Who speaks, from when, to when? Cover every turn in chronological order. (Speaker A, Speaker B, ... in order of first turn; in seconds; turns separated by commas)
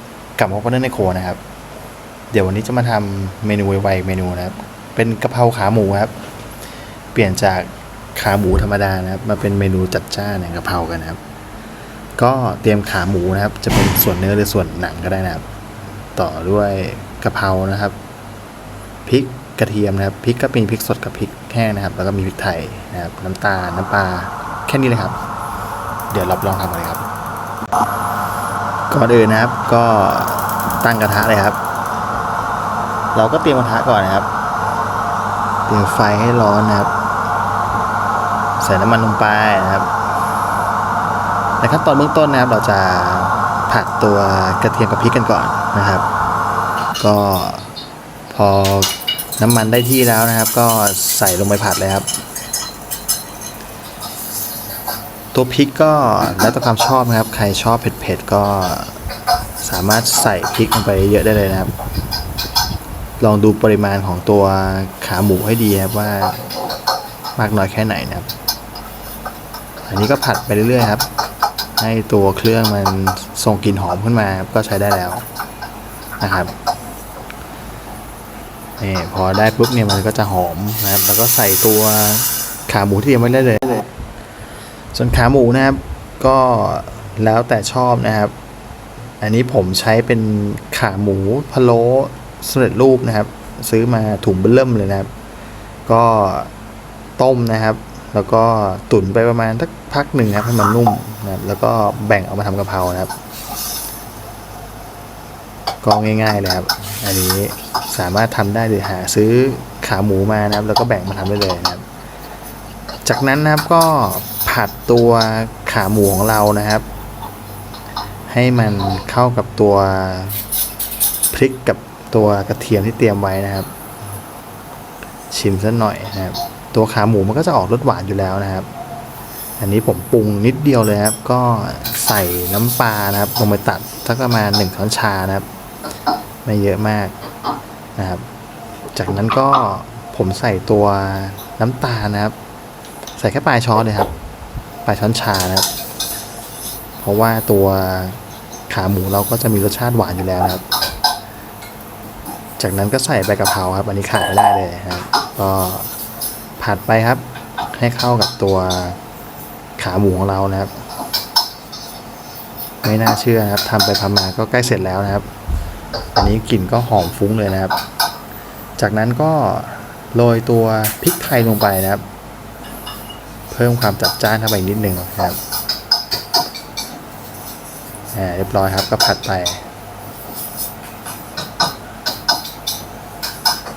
Speaker A: 0.3-1.4, Speaker A: 2.3-6.1, Speaker A: 7.1-11.2, Speaker A: 12.2-15.5, Speaker A: 16.1-17.9, Speaker A: 19.1-25.2, Speaker A: 26.1-27.1, Speaker A: 28.9-31.6, Speaker A: 33.1-34.3, Speaker A: 35.7-36.9, Speaker A: 38.6-39.9, Speaker A: 41.6-46.1, Speaker A: 47.0-47.7, Speaker A: 48.3-52.1, Speaker A: 55.3-59.0, Speaker A: 59.6-61.7, Speaker A: 63.2-66.4, Speaker A: 67.3-68.3, Speaker A: 69.8-71.1, Speaker A: 71.8-75.2, Speaker A: 76.2-76.5, Speaker A: 78.8-83.9, Speaker A: 84.9-88.3, Speaker A: 89.2-95.1, Speaker A: 95.8-96.5, Speaker A: 97.2-103.1, Speaker A: 105.8-111.8, Speaker A: 113.0-116.8, Speaker A: 118.3-120.4, Speaker A: 121.3-123.7, Speaker A: 125.3-128.7, Speaker A: 129.6-135.5, Speaker A: 136.4-137.1, Speaker A: 137.9-138.3, Speaker A: 138.9-142.3, Speaker A: 143.2-144.1, Speaker A: 144.8-145.7, Speaker A: 147.0-150.6, Speaker A: 152.6-155.9, Speaker A: 156.6-159.0, Speaker A: 159.8-160.8, Speaker A: 162.8-165.3, Speaker A: 166.1-167.8, Speaker A: 168.8-172.0, Speaker A: 173.5-175.4, Speaker A: 178.1-179.7